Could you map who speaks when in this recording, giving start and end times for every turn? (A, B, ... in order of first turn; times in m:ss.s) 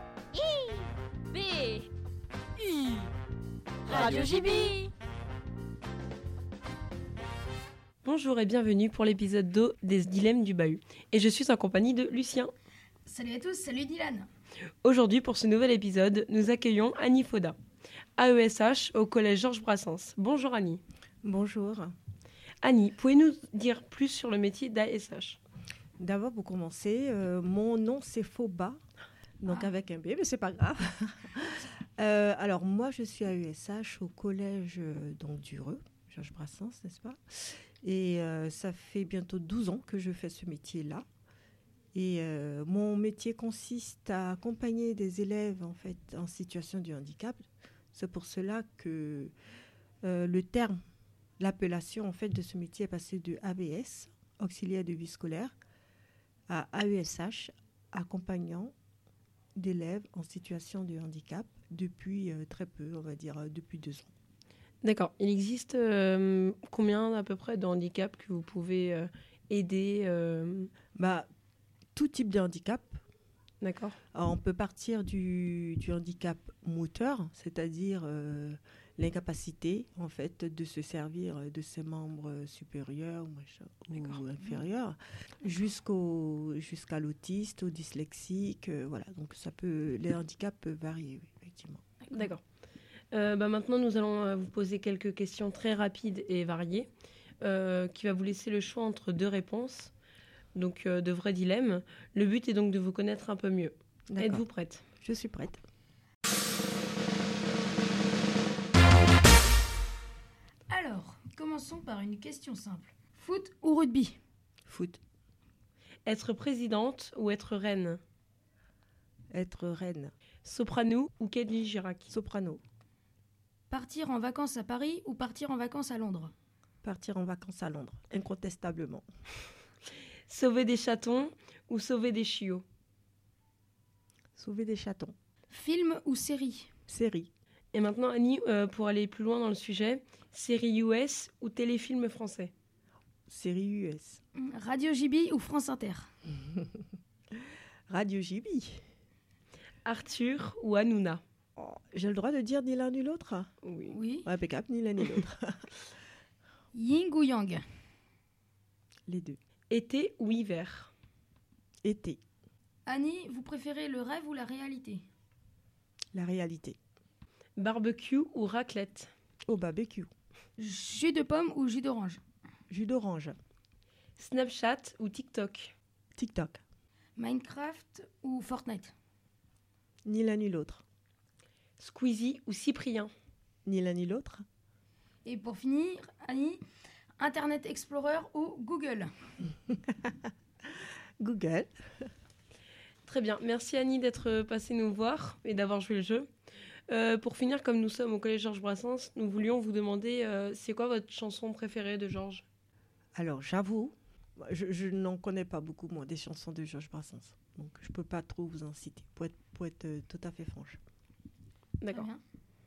0:00.3-0:01.9 A
0:03.8-0:04.9 A
0:03.9-0:04.8 B
0:08.0-0:12.5 C
0:13.0-0:14.3 B
0:14.8-0:17.6 C
0:18.2-0:20.8 C
0:21.2-0:22.0 D
0:22.6-0:25.4 C
0:26.0-0:28.8 D
0:29.4-0:41.0 D
0:41.9-0:49.3 D
0:50.0-0:50.8 D
0:51.4-0:55.5 D
0:56.5-0:58.7 D
0:59.6-1:04.1 D
1:04.8-1:10.7 C
1:11.0-1:11.3 D
1:11.9-1:13.0 D
1:13.6-1:14.0 C
1:14.1-1:31.8 D
1:32.1-1:32.4 C
1:33.1-1:36.9 C
1:37.4-1:39.9 C
1:40.5-1:44.8 C
1:44.1-1:44.4 D
1:45.0-1:45.6 D
1:50.7-1:54.2 B
1:54.6-1:55.0 D
1:56.0-1:58.0 C
1:59.3-2:00.1 D
2:00.4-2:02.1 C
2:02.1-2:02.6 D
2:03.7-2:06.3 B
2:06.8-2:09.0 D
2:10.3-2:12.6 C
2:14.4-2:15.1 D
2:15.5-2:16.7 B
2:16.9-2:17.3 D
2:17.7-2:22.5 C
2:23.3-2:24.2 D
2:24.4-2:26.1 B
2:27.9-2:28.8 D
2:29.8-2:31.2 C
2:31.6-2:33.5 D
2:33.6-2:34.0 C
2:33.9-2:34.3 B
2:34.2-2:35.7 D
2:36.7-2:37.6 B
2:39.1-2:39.4 D
2:39.7-2:40.9 C
2:41.8-2:42.2 D
2:42.8-2:45.0 B
2:46.1-2:46.8 D
2:47.6-2:49.1 C
2:49.5-2:50.1 D
2:50.6-2:52.2 B
2:52.7-2:53.3 D
2:54.2-2:55.7 C
2:56.1-2:56.6 D
2:57.2-2:58.9 B
3:00.0-3:00.8 D
3:01.8-3:03.1 C
3:03.6-3:04.4 D
3:05.2-3:06.6 B
3:07.2-3:09.1 B
3:11.2-3:11.7 D
3:13.0-3:16.3 C
3:16.9-3:22.4 C
3:23.2-3:30.8 D
3:31.8-3:32.1 C
3:31.9-3:32.2 B